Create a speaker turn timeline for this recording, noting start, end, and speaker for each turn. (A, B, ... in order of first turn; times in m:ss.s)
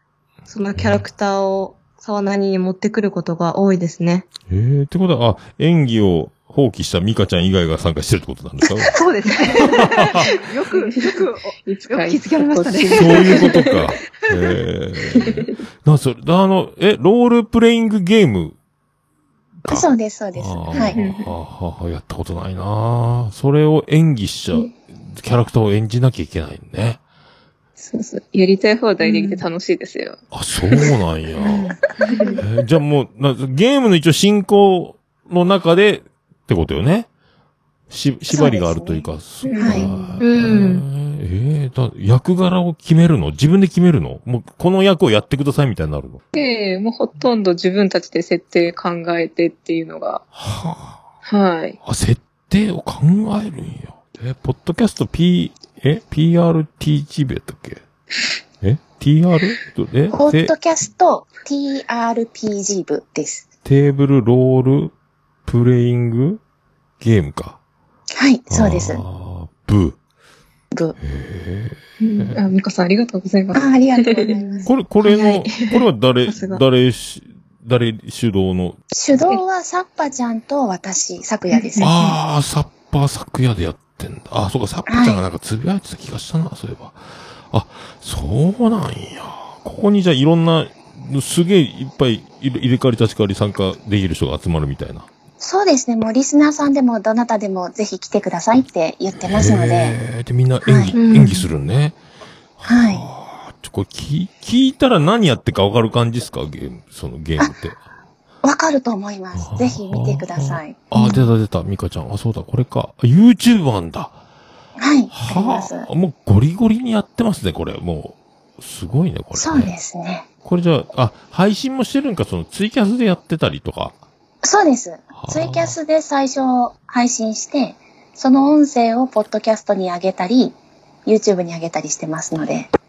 0:00.4-0:04.2 A
0:00.8-0:01.1 B
0:04.5-0:09.0 B
0:08.9-0:13.5 C
0:09.6-0:10.2 B
0:10.7-0:13.8 D
0:12.9-0:18.6 B
0:19.6-0:27.0 B
0:19.7-0:21.0 E
0:20.8-0:21.3 D
0:27.8-0:30.2 D
0:29.0-0:29.4 A
0:30.3-0:31.7 B
0:32.0-0:32.4 D
0:32.4-0:37.1 B
0:37.9-0:46.2 B
0:38.3-0:39.9 E
0:39.4-0:40.2 D
0:40.2-0:40.8 A
0:46.3-0:50.2 D
0:50.3-0:51.0 B
0:51.2-0:51.8 D
0:51.8-0:57.8 B
0:58.6-1:00.5 B
1:00.1-1:03.4 E
1:03.6-1:04.9 B
1:05.5-1:06.4 B
1:07.0-1:07.6 B
1:08.1-1:09.0 E
1:08.5-1:10.0 B
1:11.0-1:12.4 B
1:12.0-1:14.6 D
1:13.5-1:14.7 E
1:14.6-1:18.8 B
1:15.0-1:15.7 A
1:16.3-1:16.6 A
1:18.9-1:21.9 E
1:21.5-1:22.1 D
1:21.8-1:27.0 B
1:24.9-1:25.2 E
1:27.5-1:35.1 B
1:35.4-1:40.0 E
1:39.2-1:42.0 B
1:40.6-1:40.9 E
1:40.9-1:41.5 A
1:42.6-1:47.8 B
1:42.7-1:43.0 E
1:48.4-1:50.8 E
1:49.3-1:54.2 B
1:54.8-1:55.9 E
1:55.1-1:59.8 B
1:59.3-2:00.3 E
2:00.4-2:04.0 B
2:04.4-2:12.7 E
2:05.1-2:05.8 B